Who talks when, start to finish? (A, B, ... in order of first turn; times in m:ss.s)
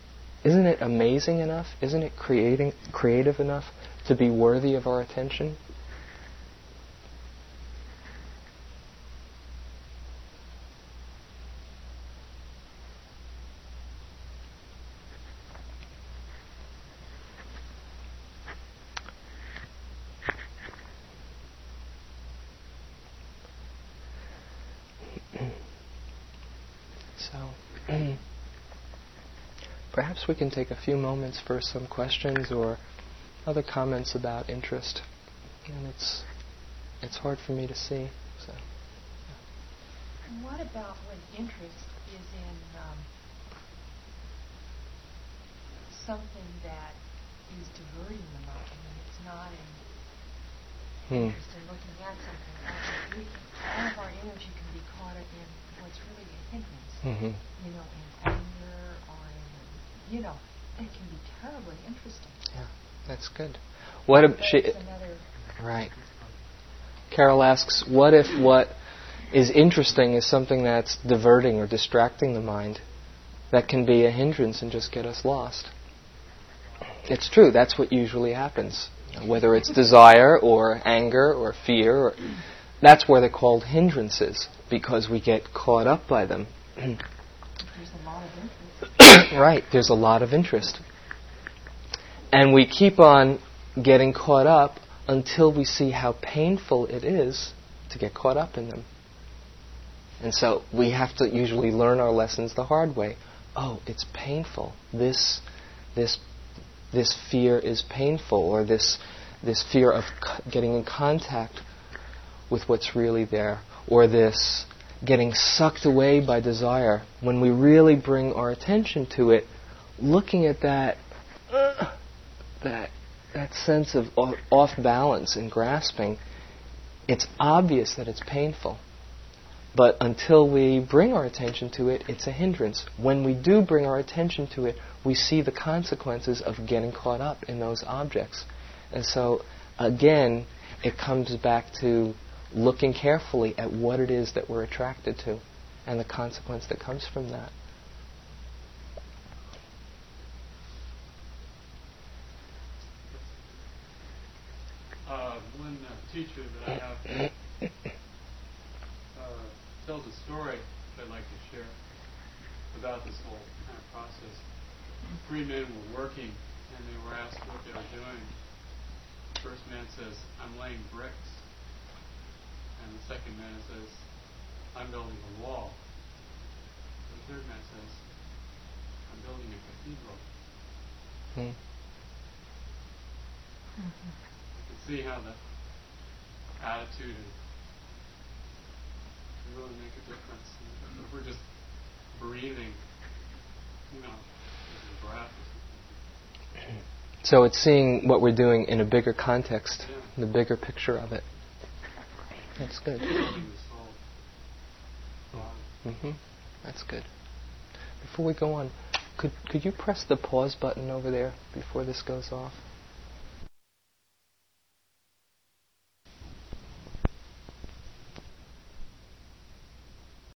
0:00.4-0:05.6 A
0:27.2-0:28.2 A
0:29.9-0:32.8 A
0:33.4-0:35.0 A
0:35.7-0:36.3 A
0:37.0-0:38.6 A
0:40.3-0:43.1 B
0:45.9-0:49.8 B
0:51.1-0:51.4 A
0:51.1-1:02.4 B
0:57.0-0:57.4 A
1:02.5-1:04.8 A
1:04.3-1:05.3 B
1:05.6-1:05.9 A
1:07.1-1:08.7 A
1:09.3-1:12.8 A
1:13.5-1:15.7 A
1:17.1-1:22.3 A
1:22.8-1:27.0 A
1:27.6-1:28.9 B
1:29.0-1:30.8 A
1:32.3-1:38.9 A
1:40.2-1:45.4 A
1:46.0-1:46.2 A
1:46.9-1:51.6 A
1:52.5-2:01.9 A
2:02.6-2:06.2 A
2:07.1-2:08.8 A
2:09.7-2:27.5 A
2:33.1-2:33.4 C
2:35.0-2:37.3 C
2:39.1-2:41.8 C
2:42.7-2:44.4 C
2:45.2-2:48.3 C
2:49.4-2:51.4 C
2:52.8-2:54.0 C
2:54.7-2:55.8 C
2:57.1-2:58.0 C
2:59.1-3:00.2 C
3:03.8-3:04.1 B
3:04.6-3:05.4 C
3:06.6-3:07.3 C
3:09.4-3:11.4 C
3:12.1-3:12.8 C
3:13.9-3:16.0 C
3:17.2-3:21.2 A
3:19.8-3:20.1 C
3:22.6-3:23.1 A
3:23.0-3:24.0 C
3:25.3-3:25.6 C
3:25.8-3:27.1 A
3:28.0-3:32.6 A